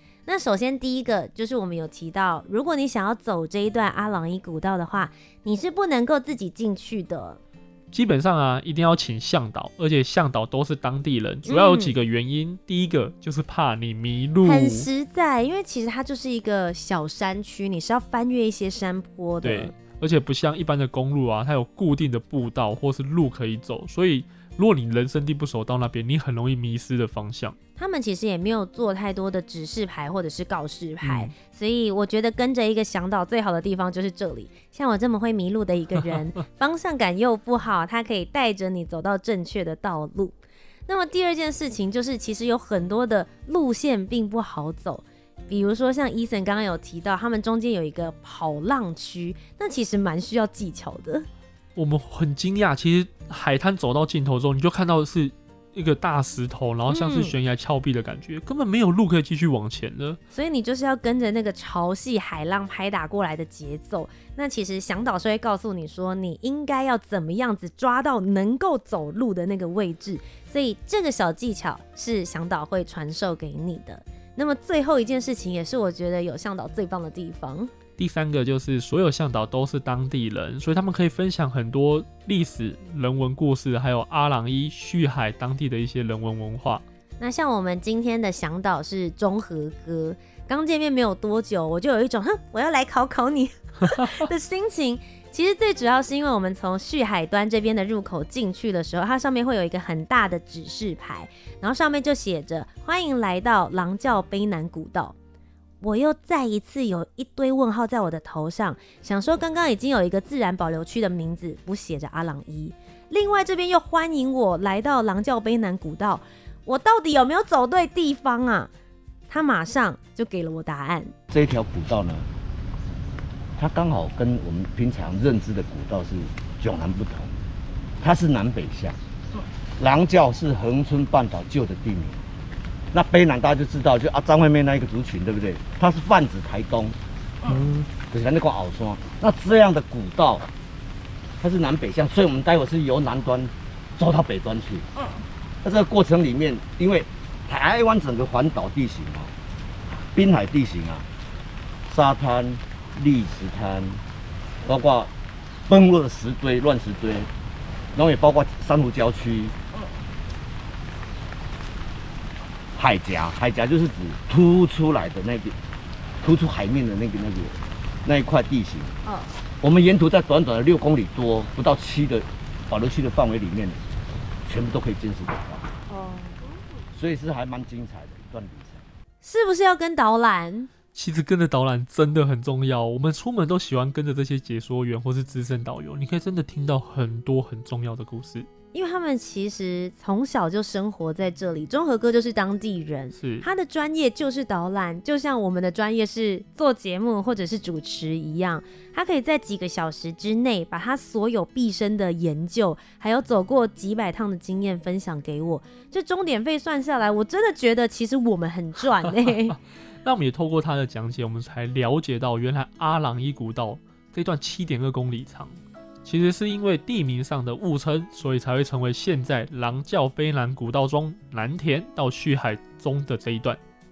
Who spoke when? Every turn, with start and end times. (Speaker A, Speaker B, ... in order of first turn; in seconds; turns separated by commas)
Speaker A: 0.3-7.4, Speaker B: 7.9-14.9, Speaker A: 11.5-12.0, Speaker A: 14.4-19.7, Speaker B: 19.4-27.6, Speaker A: 27.8-40.4, Speaker B: 31.0-31.3, Speaker A: 40.9-51.3, Speaker B: 51.8-60.2, Speaker A: 56.9-57.4, Speaker A: 60.3-77.7, Speaker B: 78.0-86.8, Speaker A: 87.2-105.1, Speaker B: 93.9-94.2, Speaker A: 105.8-118.7, Speaker A: 119.3-121.1, Speaker C: 121.3-122.3, Speaker C: 123.6-127.3, Speaker C: 128.0-129.0, Speaker C: 129.8-132.2, Speaker C: 132.9-137.0, Speaker C: 138.1-140.5, Speaker C: 141.4-144.9, Speaker C: 145.6-149.3, Speaker C: 150.1-151.1, Speaker C: 151.9-154.0, Speaker C: 154.6-155.1, Speaker C: 155.7-157.3, Speaker C: 157.9-159.6, Speaker C: 162.8-165.6, Speaker C: 166.2-169.0, Speaker C: 169.6-173.8, Speaker C: 174.5-175.7, Speaker A: 175.9-176.4, Speaker C: 176.9-178.9, Speaker A: 179.2-180.7, Speaker B: 180.9-188.5, Speaker A: 188.7-209.6, Speaker B: 193.1-193.4, Speaker B: 210.0-223.6